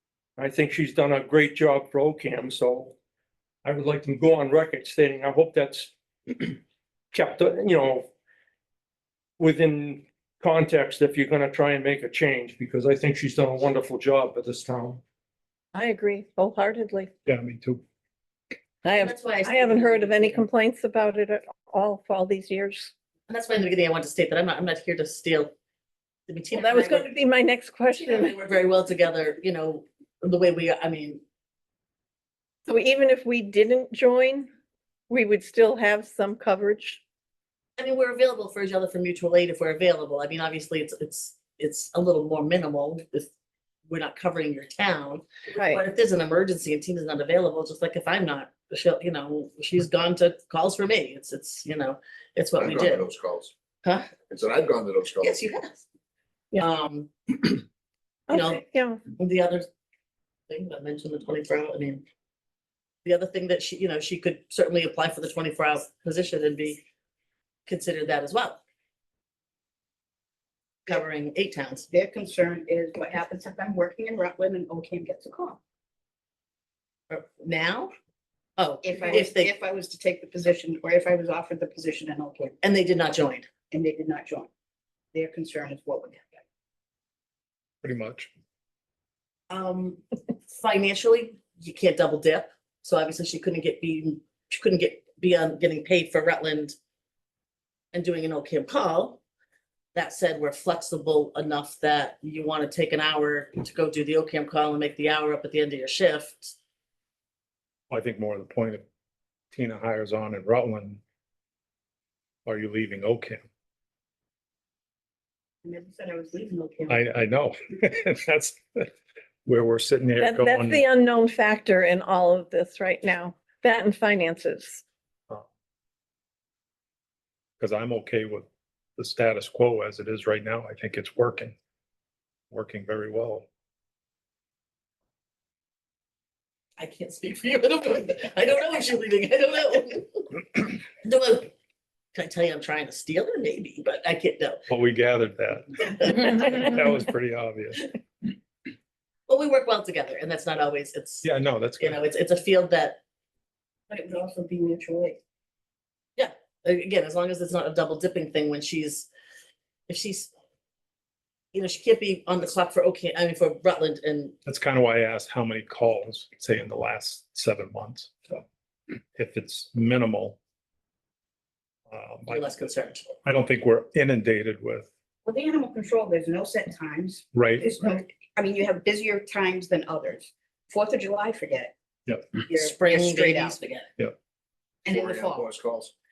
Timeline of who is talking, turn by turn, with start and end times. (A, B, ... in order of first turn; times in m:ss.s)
0:00.4-0:03.0 A
0:03.6-0:06.6 A
0:07.1-0:08.1 A
0:09.4-0:15.0 A
0:15.7-0:17.1 B
0:17.3-0:17.8 C
0:18.8-0:22.9 B
0:18.9-0:20.5 D
0:23.3-0:25.5 D
0:26.3-0:27.1 D
0:26.5-0:28.3 B
0:27.9-0:31.2 D
0:32.7-0:34.5 B
0:35.1-0:37.0 B
0:37.8-0:43.3 D
0:43.9-0:53.1 D
0:45.6-0:45.8 B
0:52.6-0:53.5 E
0:53.8-0:54.1 D
0:54.3-0:55.4 E
0:55.2-0:55.8 D
0:56.6-0:57.6 D
0:58.3-0:59.0 B
0:58.3-0:59.7 D
1:00.5-1:02.0 D
1:03.0-1:06.8 D
1:07.7-1:08.6 D
1:10.9-1:11.9 D
1:11.9-1:15.6 F
1:17.1-1:17.9 D
1:18.6-1:19.5 D
1:18.8-1:22.5 F
1:22.6-1:23.5 D
1:23.7-1:24.5 F
1:25.1-1:26.4 F
1:27.8-1:28.3 C
1:29.5-1:36.7 D
1:37.9-1:39.2 D
1:39.9-1:46.6 D
1:47.9-1:48.8 C
1:49.5-1:51.0 C
1:52.5-1:53.4 C
1:55.6-1:57.0 F
1:56.9-1:58.9 C
1:59.4-2:00.8 C
2:00.2-2:04.8 B
2:07.6-2:11.6 C
2:12.5-2:13.5 C
2:16.8-2:21.5 D
2:22.1-2:24.6 D
2:24.7-2:27.9 C
2:25.9-2:26.4 D
2:29.3-2:33.0 D
2:31.2-2:32.0 C
2:33.9-2:35.2 F
2:36.2-2:39.1 D
2:39.9-2:40.3 D
2:41.5-2:44.4 D
2:44.5-2:48.4 C
2:49.2-2:50.4 C
2:51.9-2:52.4 C
2:52.3-2:53.1 D
2:53.2-2:54.9 C
2:55.2-3:01.7 F
2:57.3-2:57.8 C
3:02.4-3:03.6 F
3:02.5-3:03.9 D
3:04.8-3:05.5 F
3:04.9-3:05.9 E